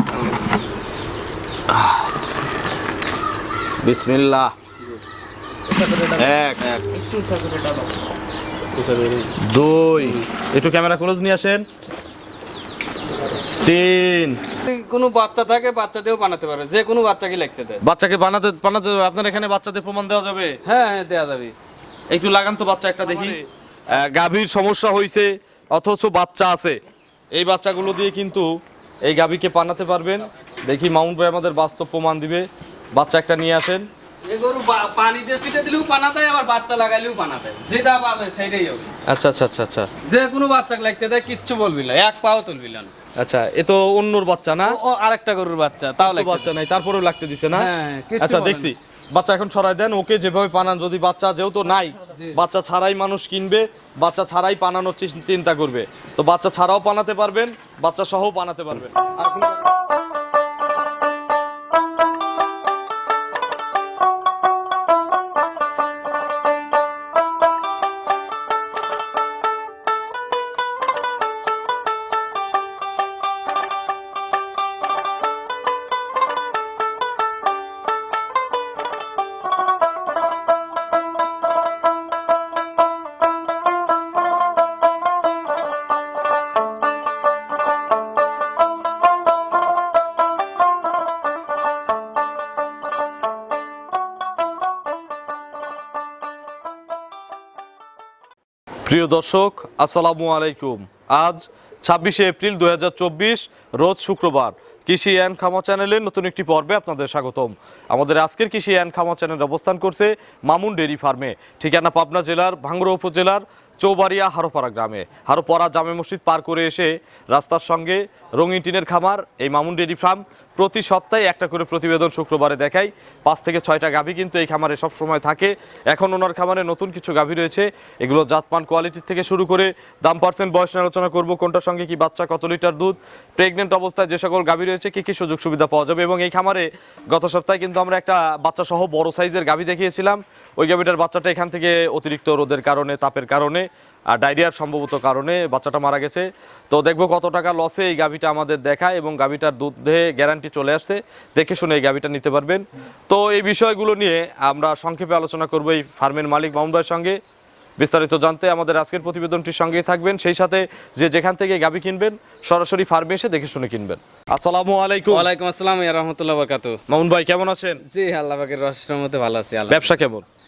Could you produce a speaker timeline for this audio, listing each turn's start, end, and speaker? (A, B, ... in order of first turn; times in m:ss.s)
0:01.7-0:02.0 A
0:03.8-0:04.5 A
0:06.1-0:06.8 A
0:06.9-0:07.5 B
0:08.7-0:09.4 B
0:09.4-0:11.6 A
0:13.6-0:14.4 A
0:14.6-0:17.8 B
0:17.8-0:20.6 A
0:20.6-0:21.5 B
0:22.1-0:26.8 A
0:23.0-0:23.4 B
0:27.3-0:28.5 A
0:29.0-0:33.8 A
0:34.3-0:38.9 B
0:39.0-0:39.9 A
0:40.0-0:42.9 B
0:43.2-0:44.8 A
0:44.6-0:46.5 B
0:46.0-0:59.6 A
0:47.5-0:48.7 B
0:52.1-0:52.4 B
1:38.8-2:37.2 A
2:37.8-2:45.3 A
2:45.1-2:46.8 B
2:46.9-2:47.8 A
2:47.8-2:50.0 B
2:49.7-2:50.2 A